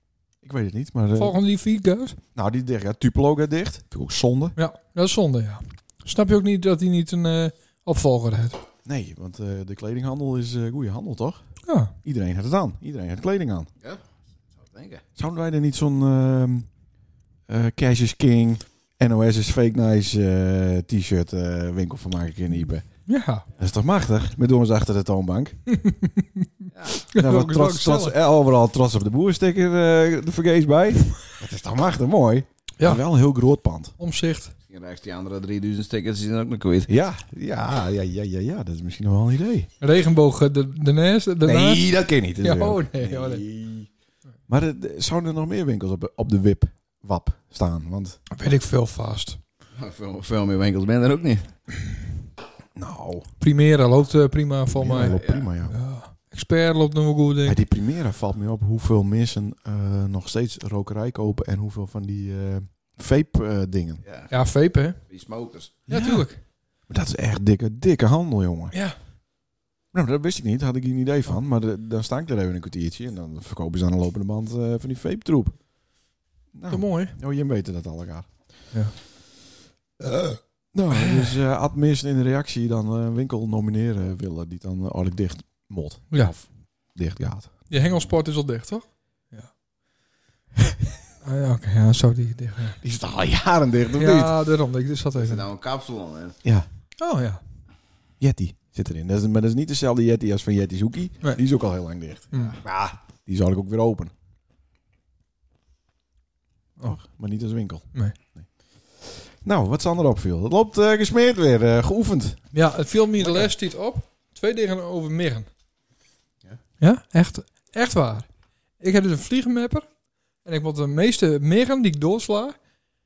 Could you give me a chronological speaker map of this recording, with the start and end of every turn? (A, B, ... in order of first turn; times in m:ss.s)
0:00.4-0:01.4 A
0:01.2-0:02.2 B
0:02.3-0:04.6 A
0:04.6-0:08.6 B
0:08.8-0:11.4 A
0:11.6-0:11.9 B
0:12.0-0:13.7 A
0:14.6-0:15.0 C
0:15.2-0:16.7 A
0:17.5-0:22.8 A
0:23.1-0:23.4 B
0:23.6-0:25.6 A
0:25.7-0:28.1 B
0:26.7-0:27.0 C
0:27.1-0:33.9 A
0:34.0-0:34.5 B
0:34.7-0:36.9 C
0:36.9-0:39.7 A
0:39.8-0:41.8 B
0:41.4-0:43.9 A
0:42.4-0:43.4 B
0:44.5-0:48.2 A
0:48.3-0:49.4 B
0:49.8-0:51.5 C
0:52.8-0:53.3 A
0:53.4-0:57.6 B
0:54.7-0:55.8 A
0:55.2-0:55.4 C
0:57.4-1:04.0 A
1:04.0-1:04.3 C
1:04.3-1:05.0 B
1:05.1-1:05.8 C
1:05.9-1:06.3 A
1:05.9-1:06.4 B
1:06.9-1:08.7 A
1:09.9-1:15.6 A
1:16.5-1:18.3 A
1:16.7-1:17.2 B
1:20.7-1:27.5 A
1:20.9-1:21.3 B
1:27.7-1:29.5 B
1:31.2-1:32.8 B
1:32.8-1:34.3 A
1:34.0-1:35.4 B
1:35.2-1:36.4 C
1:37.0-1:37.4 B
1:38.2-1:44.1 A
1:42.3-1:42.6 B
1:46.8-1:48.5 A
1:49.0-1:52.5 A
1:52.5-1:55.5 B
1:53.2-1:53.5 A
1:56.8-1:58.3 B
1:58.8-1:59.9 B
2:00.4-2:02.6 B